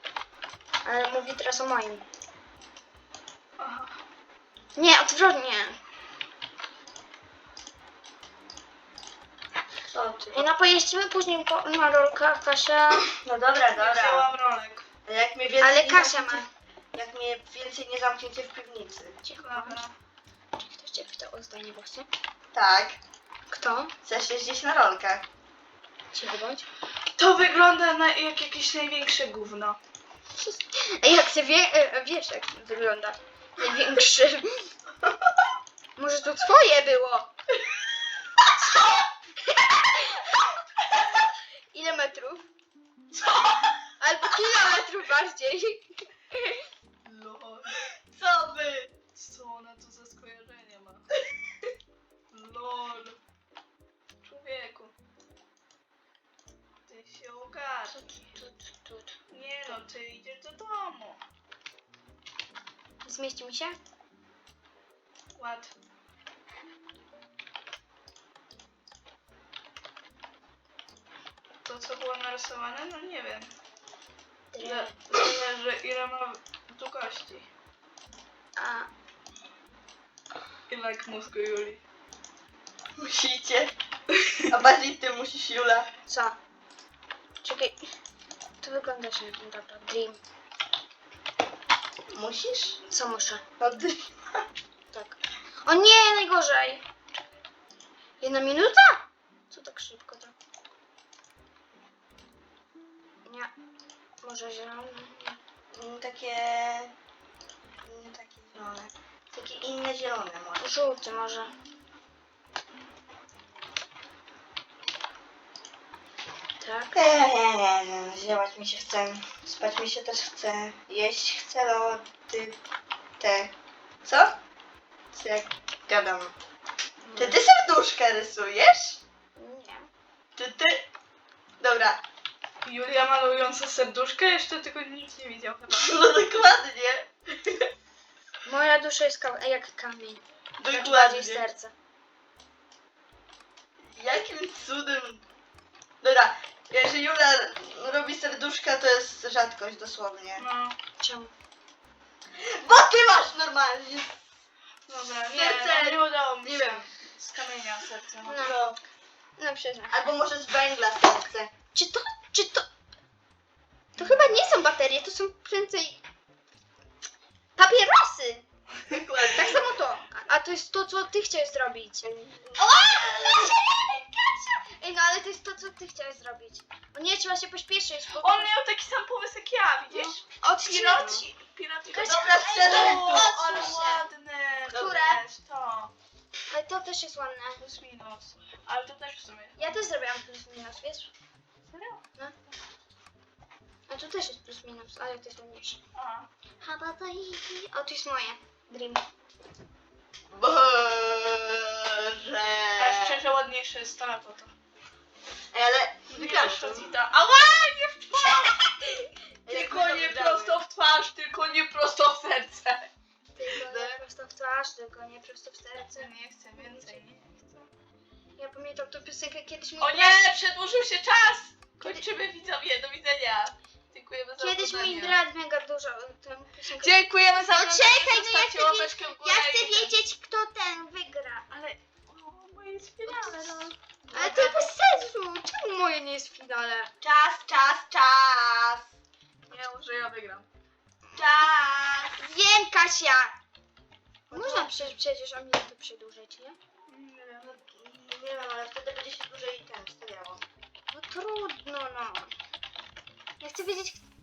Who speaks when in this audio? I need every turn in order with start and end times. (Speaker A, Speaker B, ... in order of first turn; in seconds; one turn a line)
Speaker A: 0.8-2.0
Speaker B: 3.6-4.0
Speaker A: 4.8-5.8
Speaker C: 9.9-10.5
Speaker A: 10.3-13.1
Speaker C: 13.2-14.3
Speaker B: 13.7-14.8
Speaker C: 15.1-19.2
Speaker A: 15.6-16.5
Speaker A: 19.2-19.8
Speaker B: 19.4-19.9
Speaker A: 20.6-22.1
Speaker C: 22.5-23.0
Speaker A: 23.5-23.9
Speaker C: 24.0-25.2
Speaker A: 26.1-26.6
Speaker B: 27.1-29.8
Speaker A: 30.4-34.7
Speaker C: 35.0-35.5
Speaker A: 36.0-37.3
Speaker C: 38.4-38.7
Speaker A: 39.4-41.2
Speaker A: 41.7-42.5
Speaker C: 43.1-43.6
Speaker A: 44.0-46.6
Speaker B: 47.0-47.7
Speaker C: 47.9-48.9
Speaker B: 49.1-51.0
Speaker B: 52.3-53.2
Speaker B: 54.2-54.9
Speaker B: 56.9-58.0
Speaker A: 57.9-59.8
Speaker B: 59.3-61.2
Speaker A: 63.0-63.8
Speaker B: 65.3-65.7
Speaker B: 71.6-73.5
Speaker A: 74.5-75.4
Speaker B: 74.6-77.5
Speaker A: 78.6-78.9
Speaker B: 80.7-81.8
Speaker C: 83.0-83.7
Speaker B: 84.2-84.4
Speaker C: 84.5-85.9
Speaker A: 86.1-86.4
Speaker A: 87.4-87.8
Speaker A: 88.6-90.2
Speaker C: 92.1-92.8
Speaker A: 92.9-93.4
Speaker C: 93.6-94.4
Speaker A: 94.9-96.8
Speaker A: 98.2-100.3
Speaker A: 103.2-103.5
Speaker A: 104.2-105.4
Speaker C: 105.7-106.9
Speaker C: 107.8-110.7
Speaker A: 110.6-111.5
Speaker A: 116.6-116.9
Speaker C: 116.9-122.6
Speaker C: 123.2-123.5
Speaker C: 124.0-124.3
Speaker C: 125.1-126.3
Speaker A: 127.0-127.4
Speaker C: 127.2-129.0
Speaker A: 129.4-129.9
Speaker C: 130.3-130.9
Speaker C: 131.6-132.0
Speaker B: 132.6-135.9
Speaker C: 135.7-137.7
Speaker A: 138.4-141.7
Speaker C: 140.6-141.5
Speaker C: 143.8-145.2
Speaker C: 146.0-150.4
Speaker B: 150.4-150.8
Speaker A: 151.0-151.3
Speaker C: 152.4-154.2
Speaker B: 154.9-158.5
Speaker C: 155.3-156.9
Speaker A: 155.3-155.6
Speaker A: 158.2-158.6
Speaker C: 158.4-158.8
Speaker A: 159.4-160.0
Speaker C: 159.9-161.5
Speaker A: 161.7-162.7
Speaker C: 164.0-164.6
Speaker A: 164.0-166.0
Speaker A: 167.6-168.4
Speaker C: 168.9-169.7
Speaker A: 169.2-172.1
Speaker C: 172.0-173.6
Speaker A: 172.6-178.5
Speaker B: 178.2-185.9
Speaker A: 179.9-181.3
Speaker C: 181.0-181.2
Speaker A: 181.9-184.0
Speaker C: 181.9-183.3
Speaker A: 184.7-185.2
Speaker A: 186.5-187.6
Speaker B: 187.6-189.6
Speaker A: 189.6-191.1
Speaker B: 191.7-192.0
Speaker A: 193.9-195.8
Speaker B: 195.9-196.3
Speaker A: 196.6-199.0
Speaker C: 200.3-203.2
Speaker B: 202.8-204.5
Speaker C: 205.5-206.9
Speaker B: 206.1-212.9
Speaker C: 209.4-210.6
Speaker A: 213.3-217.0
Speaker C: 213.5-214.0
Speaker B: 216.0-217.7
Speaker A: 218.4-220.3
Speaker B: 219.8-225.2
Speaker A: 224.4-231.6
Speaker B: 226.8-229.9
Speaker B: 231.5-233.7
Speaker A: 233.1-236.9
Speaker C: 234.1-234.7
Speaker C: 237.0-238.9
Speaker B: 239.5-240.5
Speaker C: 241.1-242.2
Speaker A: 242.2-243.4
Speaker C: 244.3-244.9
Speaker A: 244.3-246.6
Speaker B: 246.9-247.5
Speaker C: 247.4-250.4
Speaker A: 250.9-252.3
Speaker A: 253.4-254.0